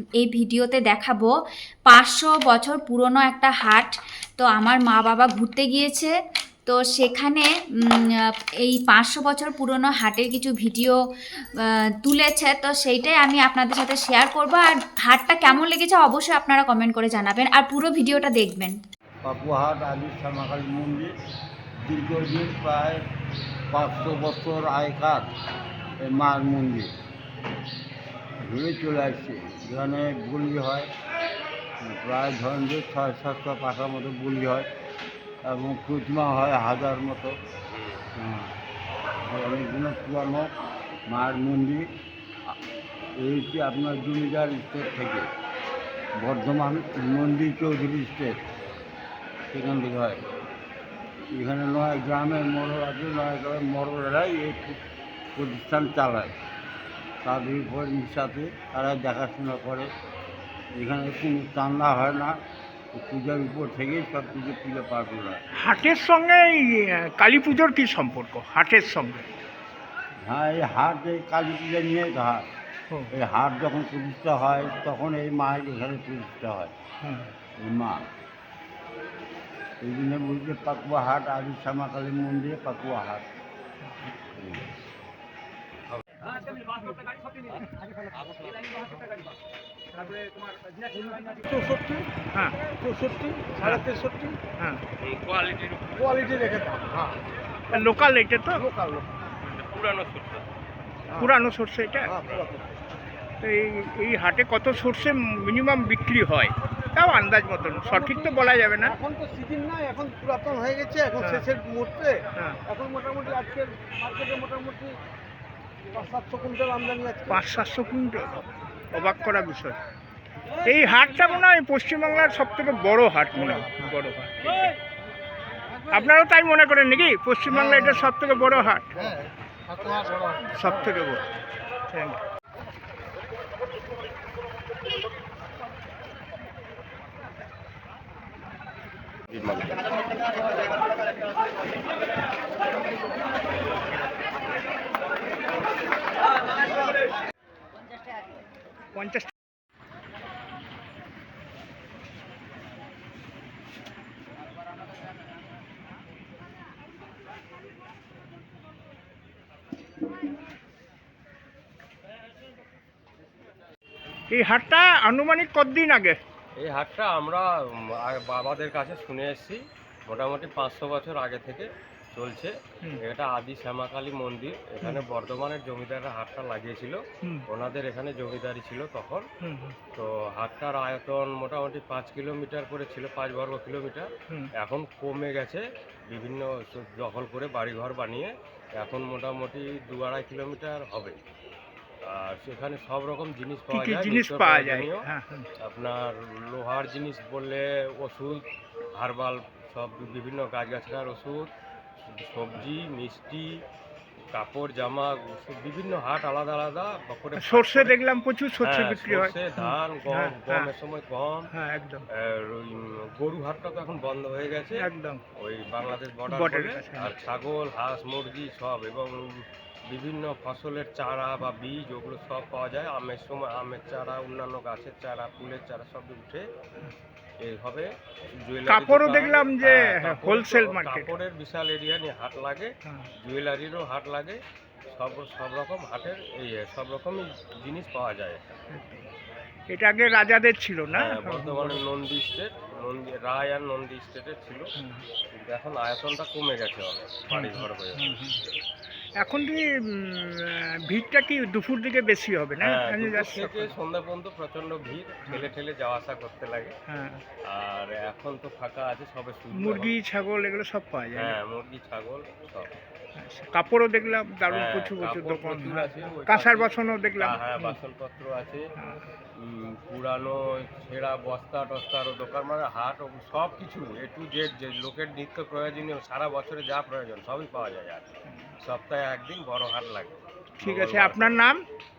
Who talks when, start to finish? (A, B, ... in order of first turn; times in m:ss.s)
0:00.2-0:01.3 A
0:01.9-0:06.1 A
0:06.7-0:11.0 A
0:11.6-0:18.8 A
0:19.2-0:21.1 B
0:21.8-0:23.0 B
0:23.7-0:25.3 B
0:26.0-0:26.9 B
0:28.4-0:30.9 B
0:31.8-0:34.7 B
0:35.4-0:37.4 B
0:37.7-0:38.1 C
0:38.2-0:38.6 B
0:39.2-0:40.6 B
0:41.1-0:41.9 B
0:43.2-0:45.3 B
0:46.2-0:48.4 B
0:49.5-0:50.2 B
0:51.3-0:54.8 B
0:55.4-0:56.4 B
0:57.2-0:59.9 B
1:00.7-1:02.4 B
1:02.9-1:05.4 B
1:05.6-1:09.3 D
1:10.2-1:12.5 B
1:13.1-1:16.7 B
1:17.0-1:17.3 D
1:17.6-1:18.0 B
1:19.8-1:23.3 B
1:24.4-1:24.7 B
1:25.9-1:26.3 C
1:31.2-1:32.1 E
1:32.3-1:32.6 D
1:32.7-1:34.4 E
1:33.6-1:33.9 D
1:34.5-1:34.8 D
1:35.0-1:36.2 C
1:36.0-1:37.2 E
1:37.7-1:38.7 D
1:38.6-1:39.1 E
1:39.4-1:40.4 C
1:41.2-1:42.2 D
1:42.2-1:42.7 E
1:43.4-1:49.0 D
1:47.9-1:48.3 E
1:48.8-1:55.0 E
1:51.2-1:51.5 D
1:52.4-1:52.6 D
1:55.9-1:57.3 E
1:57.3-1:59.8 D
2:00.6-2:04.6 D
2:03.5-2:03.7 E
2:05.9-2:09.2 D
2:09.7-2:10.4 E
2:10.5-2:11.2 D
2:11.9-2:12.2 D
2:19.5-2:19.8 C
2:29.0-2:29.3 D
2:44.3-2:46.2 D
2:46.6-2:47.5 C
2:48.0-2:59.3 C
2:59.4-2:59.8 D
2:59.9-3:11.2 C
3:12.0-3:15.0 C
3:13.7-3:15.5 D
3:15.6-3:21.5 C
3:22.1-3:23.6 C
3:24.3-3:28.0 C
3:27.4-3:30.7 D
3:28.6-3:31.5 C
3:31.5-3:32.1 D
3:32.1-3:34.9 C
3:34.8-3:35.2 D
3:35.4-3:46.4 C
3:36.3-3:37.1 D
3:47.4-3:47.9 C
3:48.4-3:52.7 C
3:48.7-3:51.1 D
3:53.2-3:54.4 C
3:54.9-3:58.6 C
3:58.7-3:59.0 D
3:59.7-4:01.8 D
4:00.9-4:04.7 C
4:04.8-4:05.1 D
4:05.3-4:08.2 C
4:07.3-4:08.4 D
4:09.2-4:13.7 D
4:12.6-4:16.7 C
4:16.9-4:17.2 D
4:17.5-4:19.9 C
4:19.5-4:21.4 D
4:21.2-4:22.7 C
4:23.2-4:27.8 D
4:24.5-4:28.6 C
4:29.4-4:38.1 C
4:38.6-4:41.4 C
4:40.6-4:41.6 D